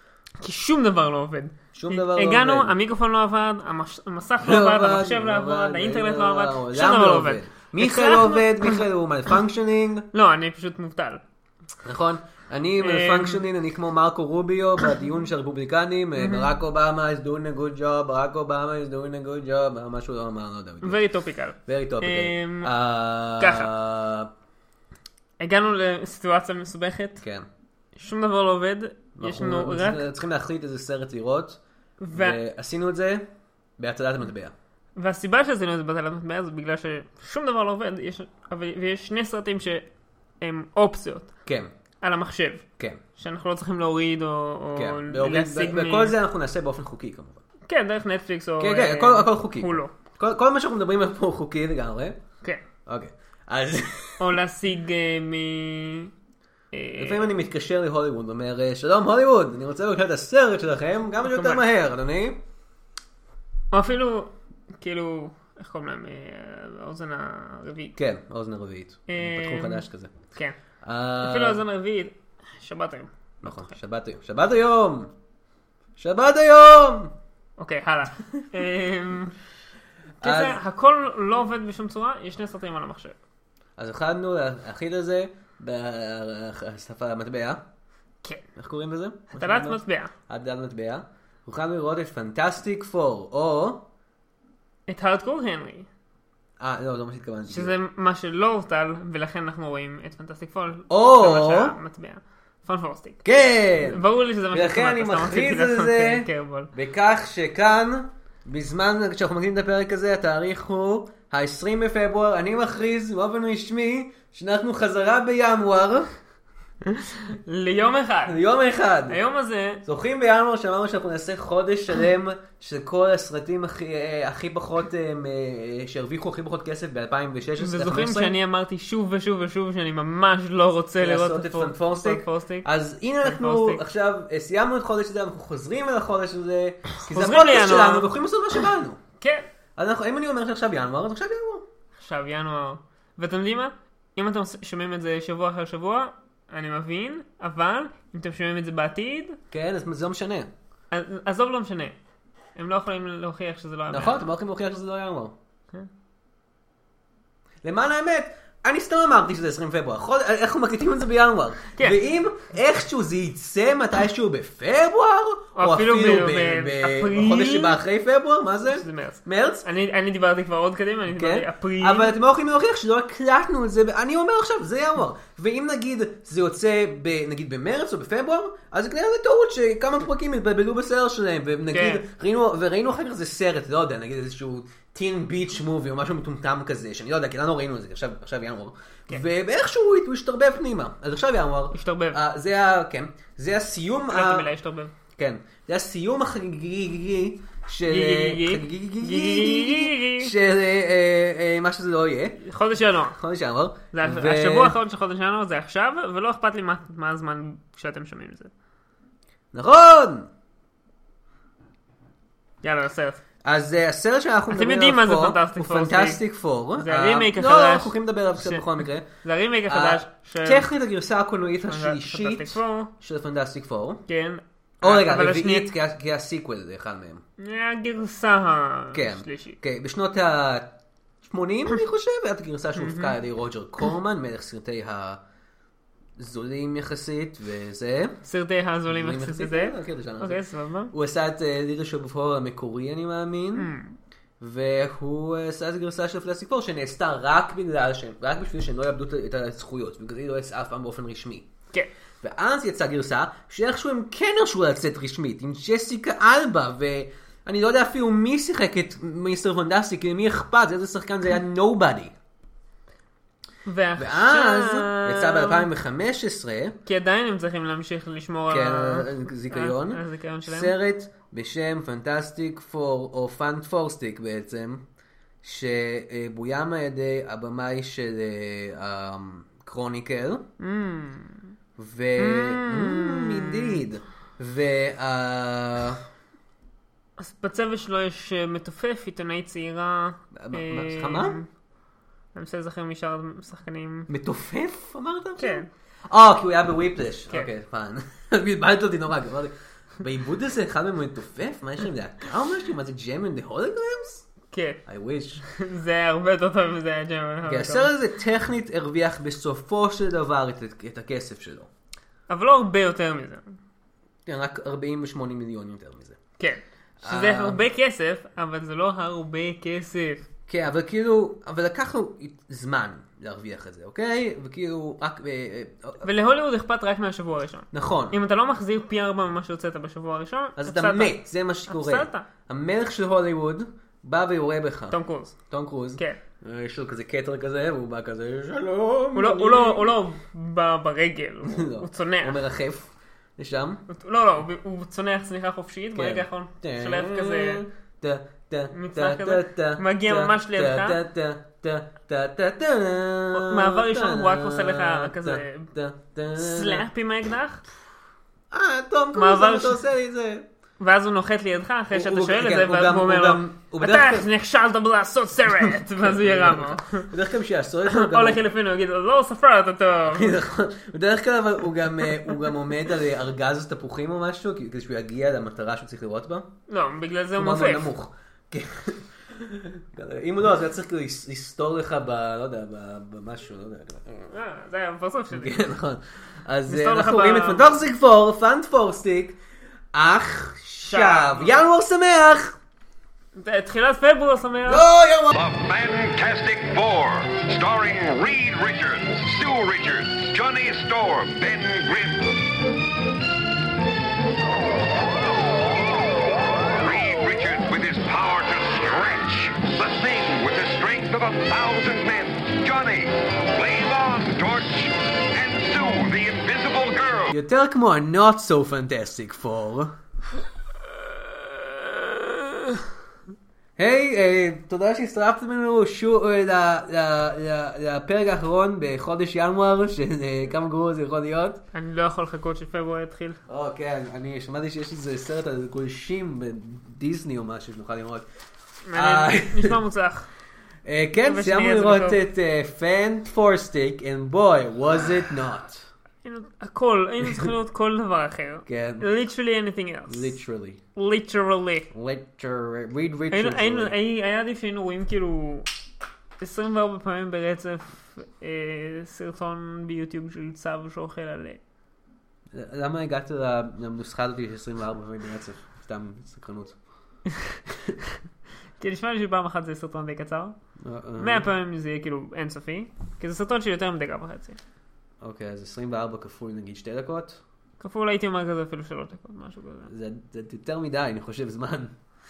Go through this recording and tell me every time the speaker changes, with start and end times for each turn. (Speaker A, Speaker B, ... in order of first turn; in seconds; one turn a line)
Speaker A: 0.4-8.8
Speaker B: 1.7-2.7
Speaker B: 4.4-10.1
Speaker A: 10.1-11.2
Speaker B: 11.8-21.0
Speaker A: 12.8-13.4
Speaker A: 16.2-16.5
Speaker A: 20.8-22.7
Speaker B: 21.6-24.3
Speaker A: 23.4-23.7
Speaker A: 25.4-27.2
Speaker B: 27.2-27.5
Speaker A: 27.9-30.1
Speaker B: 29.2-34.5
Speaker A: 32.0-32.4
Speaker A: 35.0-39.9
Speaker A: 40.4-41.3
Speaker B: 41.5-41.7
Speaker A: 42.0-42.6
Speaker A: 43.2-46.1
Speaker B: 44.8-47.4
Speaker A: 47.7-49.9
Speaker B: 48.6-52.2
Speaker B: 52.9-54.3
Speaker A: 54.2-56.1
Speaker A: 56.7-57.3
Speaker B: 57.0-62.4
Speaker A: 61.2-61.6
Speaker A: 63.7-68.0
Speaker B: 68.0-70.1
Speaker A: 69.1-70.6
Speaker B: 70.8-71.6
Speaker A: 71.2-73.7
Speaker B: 73.4-75.1
Speaker B: 76.0-77.1
Speaker A: 77.6-79.3
Speaker B: 80.2-80.6
Speaker A: 80.2-83.2
Speaker B: 83.8-87.6
Speaker B: 88.6-93.8
Speaker A: 89.4-90.1
Speaker A: 94.9-95.9
Speaker B: 96.6-97.8
Speaker A: 97.5-103.2
Speaker B: 100.9-101.8
Speaker B: 103.2-116.1
Speaker A: 103.8-106.7
Speaker A: 116.8-118.4
Speaker B: 118.2-119.2
Speaker A: 119.1-119.8
Speaker B: 119.8-128.3
Speaker A: 127.6-132.7
Speaker B: 131.0-139.0
Speaker A: 133.2-133.8
Speaker A: 137.0-138.1
Speaker A: 139.2-139.5
Speaker B: 139.8-141.7
Speaker A: 142.0-149.4
Speaker B: 149.5-150.5
Speaker A: 150.9-152.0
Speaker A: 152.5-154.3
Speaker B: 153.9-155.3
Speaker B: 157.6-169.7
Speaker A: 165.6-167.8
Speaker A: 168.7-172.1
Speaker B: 171.1-194.5
Speaker A: 181.7-182.0
Speaker A: 191.7-192.2
Speaker A: 194.1-194.9
Speaker B: 195.2-202.4
Speaker A: 197.9-200.3
Speaker A: 202.4-203.2
Speaker B: 203.1-204.8
Speaker A: 203.9-208.5
Speaker B: 209.5-210.3
Speaker A: 212.6-213.2
Speaker B: 213.4-219.1
Speaker A: 214.5-216.2
Speaker A: 216.8-220.7
Speaker B: 219.7-224.0
Speaker A: 221.6-222.9
Speaker A: 224.1-225.7
Speaker B: 224.8-227.2
Speaker A: 227.4-229.6
Speaker B: 228.9-235.2
Speaker A: 232.8-233.2
Speaker B: 236.2-238.2
Speaker A: 238.2-240.9
Speaker B: 238.9-240.4
Speaker B: 240.9-243.7
Speaker A: 243.5-244.0
Speaker B: 244.4-251.5
Speaker B: 252.2-262.1
Speaker A: 263.6-265.7
Speaker B: 264.0-266.8
Speaker A: 266.9-270.7
Speaker B: 268.5-274.8
Speaker B: 275.4-280.4
Speaker A: 280.6-281.5
Speaker B: 281.8-286.0
Speaker A: 282.2-283.8
Speaker A: 287.2-291.5
Speaker B: 290.3-291.4
Speaker A: 292.3-294.1
Speaker B: 294.1-304.3
Speaker A: 295.4-295.7
Speaker A: 304.5-304.8
Speaker B: 304.9-305.4
Speaker A: 305.4-307.9
Speaker B: 307.4-311.7
Speaker A: 312.3-313.5
Speaker B: 314.2-316.2
Speaker A: 316.4-320.2
Speaker B: 317.0-317.6
Speaker B: 320.5-326.1
Speaker A: 326.0-331.1
Speaker B: 327.7-328.2
Speaker B: 330.6-335.0
Speaker A: 331.7-332.3
Speaker A: 334.9-335.4
Speaker B: 335.5-339.9
Speaker A: 339.1-342.4
Speaker B: 341.4-343.8
Speaker A: 343.9-347.6
Speaker B: 345.9-356.9
Speaker A: 348.7-351.0
Speaker A: 353.3-355.7
Speaker A: 356.3-357.6
Speaker B: 358.5-360.4
Speaker A: 359.1-359.8
Speaker A: 360.8-367.1
Speaker B: 361.9-364.3
Speaker B: 365.8-368.4
Speaker A: 367.9-370.4
Speaker B: 370.1-376.5
Speaker A: 376.7-377.9
Speaker B: 377.3-384.3
Speaker A: 384.3-385.6
Speaker B: 385.3-389.4
Speaker A: 386.7-387.6
Speaker B: 389.9-392.6
Speaker A: 390.9-391.6
Speaker A: 393.3-394.8
Speaker B: 394.6-395.3
Speaker C: 395.3-402.4
Speaker C: 406.8-417.3
Speaker B: 417.3-419.9
Speaker B: 423.8-431.6
Speaker A: 431.7-433.4
Speaker B: 433.5-438.2
Speaker A: 438.9-440.3
Speaker B: 438.9-439.8
Speaker B: 440.8-445.9
Speaker A: 441.2-442.2
Speaker A: 446.2-450.3
Speaker B: 447.2-447.5
Speaker B: 448.6-449.1
Speaker B: 450.1-450.8
Speaker A: 450.9-451.9
Speaker B: 451.9-453.9
Speaker A: 453.3-455.7
Speaker A: 456.4-461.6
Speaker B: 462.5-466.8
Speaker B: 467.7-468.2
Speaker A: 468.8-470.6
Speaker B: 470.8-471.5
Speaker A: 471.2-474.6
Speaker B: 475.2-477.4
Speaker A: 477.8-479.9
Speaker B: 479.9-481.9